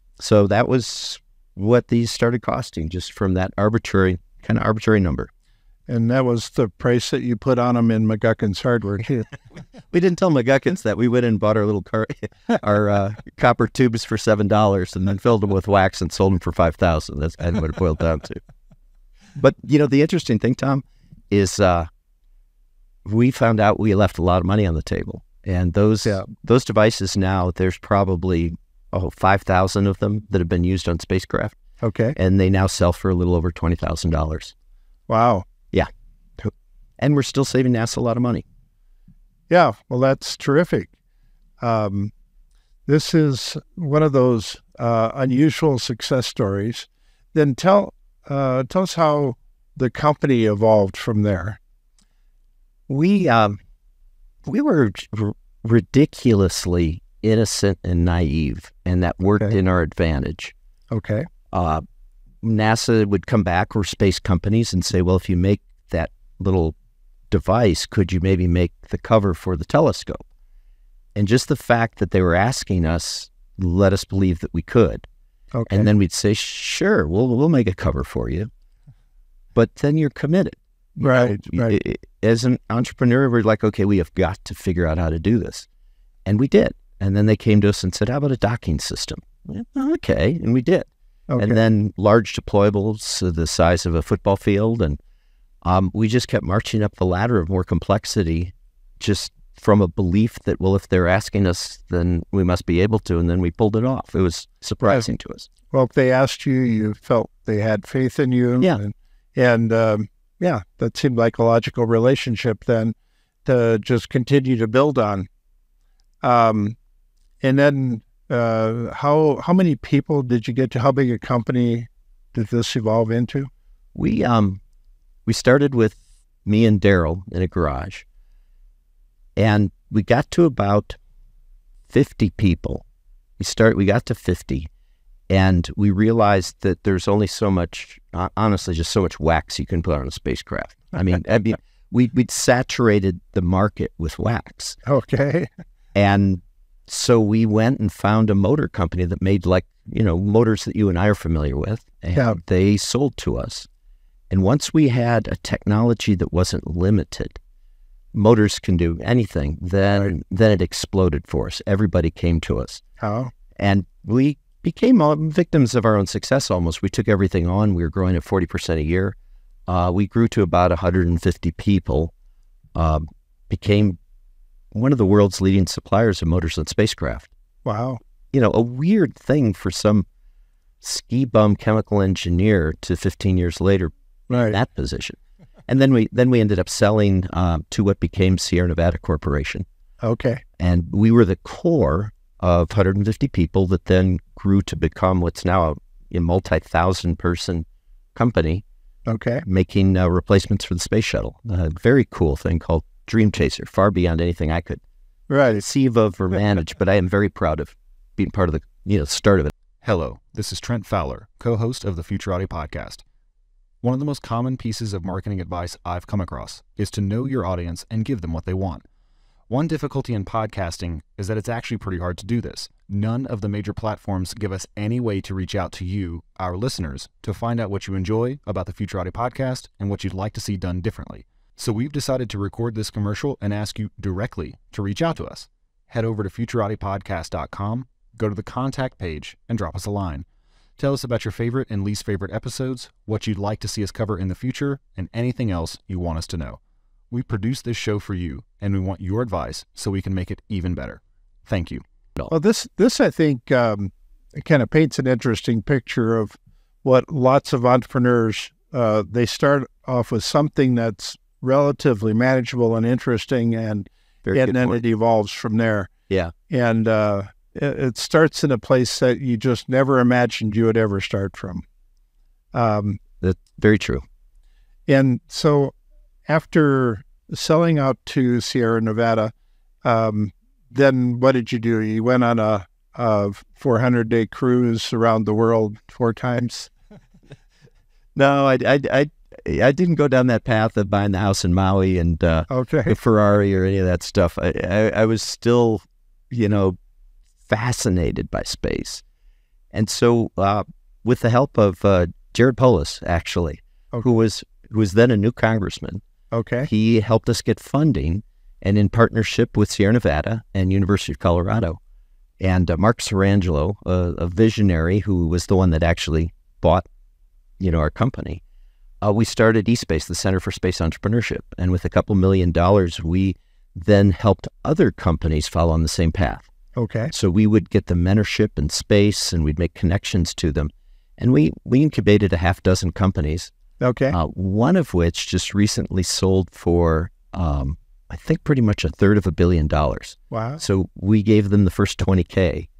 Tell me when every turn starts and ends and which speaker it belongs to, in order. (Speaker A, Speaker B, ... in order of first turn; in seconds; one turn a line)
Speaker A: 0.2-5.3
Speaker B: 5.9-9.3
Speaker A: 9.9-18.4
Speaker A: 19.4-21.9
Speaker A: 23.0-31.6
Speaker B: 31.8-32.1
Speaker A: 32.1-34.5
Speaker B: 35.1-35.5
Speaker A: 35.7-38.4
Speaker B: 39.5-40.9
Speaker B: 41.6-42.1
Speaker B: 42.9-51.6
Speaker A: 52.9-53.6
Speaker A: 54.4-60.5
Speaker B: 60.9-61.3
Speaker A: 61.5-61.8
Speaker A: 62.4-66.7
Speaker A: 67.3-70.2
Speaker A: 71.1-75.0
Speaker B: 75.5-75.9
Speaker A: 75.7-78.5
Speaker A: 79.5-85.7
Speaker B: 81.0-81.8
Speaker A: 86.2-95.0
Speaker B: 91.3-91.6
Speaker A: 95.6-105.5
Speaker B: 105.7-115.3
Speaker B: 116.2-116.8
Speaker B: 117.4-123.5
Speaker A: 123.9-124.6
Speaker A: 125.2-128.0
Speaker A: 129.4-131.0
Speaker A: 131.9-132.8
Speaker A: 133.4-134.7
Speaker A: 135.3-144.8
Speaker B: 144.8-145.5
Speaker A: 145.9-153.7
Speaker A: 154.3-157.4
Speaker A: 158.1-162.8
Speaker B: 163.0-163.3
Speaker A: 163.6-169.2
Speaker A: 169.7-172.1
Speaker A: 172.7-174.0
Speaker A: 174.7-177.3
Speaker B: 177.6-178.0
Speaker A: 178.3-180.1
Speaker A: 180.8-189.7
Speaker B: 184.3-184.6
Speaker B: 190.0-190.4
Speaker A: 190.6-198.6
Speaker B: 199.1-199.4
Speaker A: 199.4-204.8
Speaker B: 205.3-205.6
Speaker A: 205.5-209.5
Speaker C: 209.8-213.0
Speaker C: 213.8-218.8
Speaker C: 219.5-240.2
Speaker C: 240.8-246.6
Speaker C: 247.1-251.8
Speaker B: 252.3-265.9
Speaker A: 264.2-264.8
Speaker B: 266.5-271.6
Speaker B: 272.5-273.0
Speaker A: 273.2-274.0
Speaker B: 274.9-275.7
Speaker B: 276.2-279.3
Speaker B: 279.8-286.7
Speaker A: 288.1-296.8
Speaker B: 292.5-292.9
Speaker A: 297.5-299.0
Speaker A: 299.7-306.0
Speaker B: 306.3-306.7
Speaker A: 306.6-311.8
Speaker A: 312.4-316.9
Speaker A: 317.6-318.4
Speaker A: 319.0-326.5
Speaker B: 326.8-327.1
Speaker A: 327.1-333.5
Speaker B: 333.8-334.1
Speaker A: 334.1-342.7
Speaker B: 340.3-340.6